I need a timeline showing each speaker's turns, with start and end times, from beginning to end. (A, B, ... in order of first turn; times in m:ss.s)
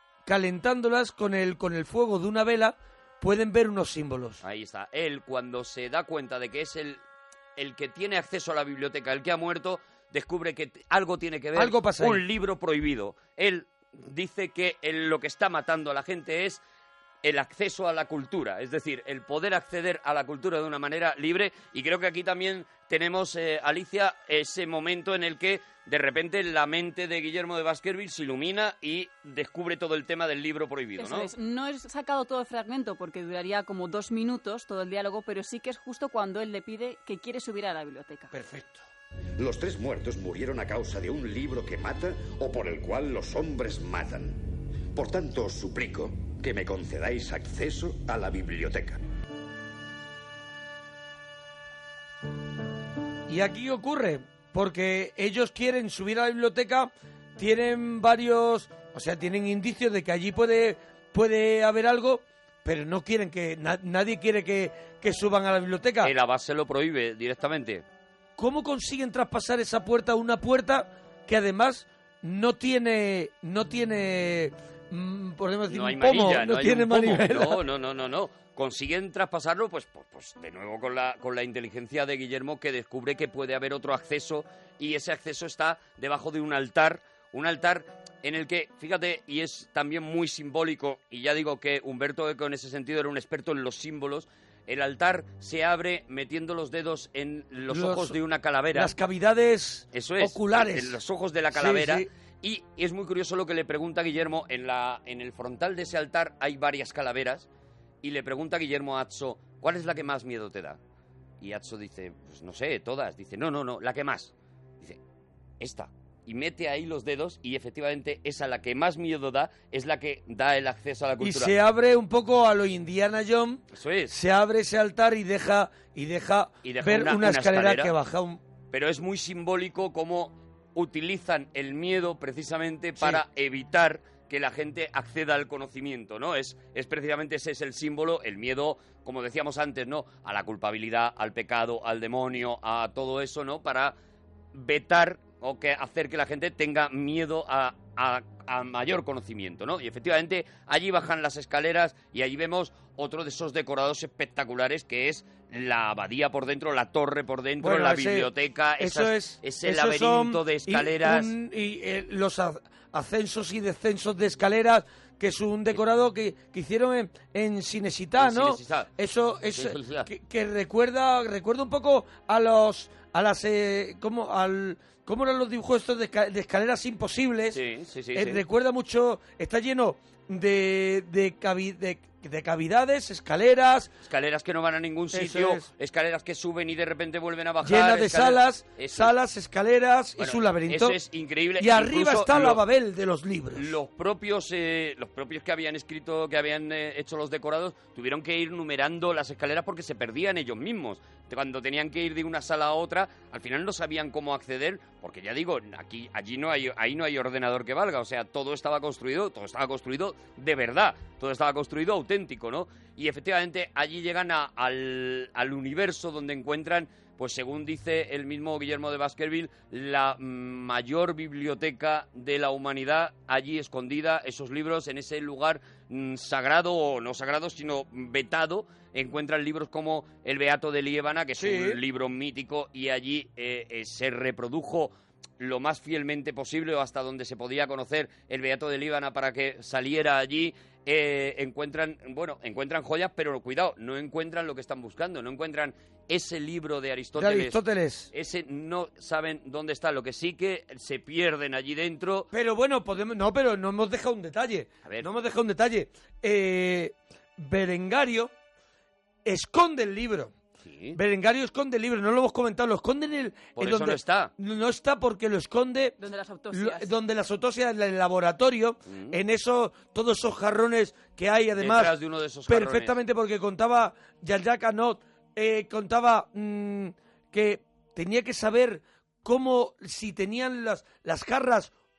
0:00.2-0:04.4 A
0:04.4-0:07.0 B
0:07.6-0:16.6 B
0:11.5-0:12.2 A
0:17.2-0:31.3 B
0:31.0-0:38.3 C
0:38.3-0:38.8 A
0:39.4-0:49.0 D
0:53.3-1:06.1 A
1:06.0-1:07.8 B
1:08.4-1:17.6 A
1:15.7-1:38.9 B
1:37.7-1:38.1 A
1:38.7-1:40.9 A
1:39.9-1:47.5 B
1:41.5-1:42.0 A
1:48.0-1:50.8 B
1:51.4-1:55.0 B
1:55.6-2:01.5 B
2:01.2-2:08.4 A
2:03.7-2:04.1 B
2:06.6-2:07.9 B
2:08.7-2:23.9 B
2:24.5-2:41.3 B
2:37.6-2:57.6 A
2:48.2-2:48.9 B
2:49.5-2:50.1 B
2:57.5-2:58.4 B
2:58.1-3:03.9 A
3:04.0-3:09.2 B
3:05.1-3:05.7 A
3:07.6-3:10.9 A
3:10.2-3:12.6 B
3:11.6-3:13.7 A
3:13.5-4:12.3 B
3:51.4-3:51.7 A
4:07.2-4:08.1 A
4:12.3-4:18.3 A
4:14.8-4:15.1 B
4:19.2-4:20.3 A
4:20.6-4:21.0 B
4:20.9-4:25.9 A
4:23.5-4:24.3 B
4:26.0-4:26.9 C
4:26.5-4:31.9 A
4:28.9-4:29.2 B
4:31.6-4:33.0 B
4:32.5-4:41.7 A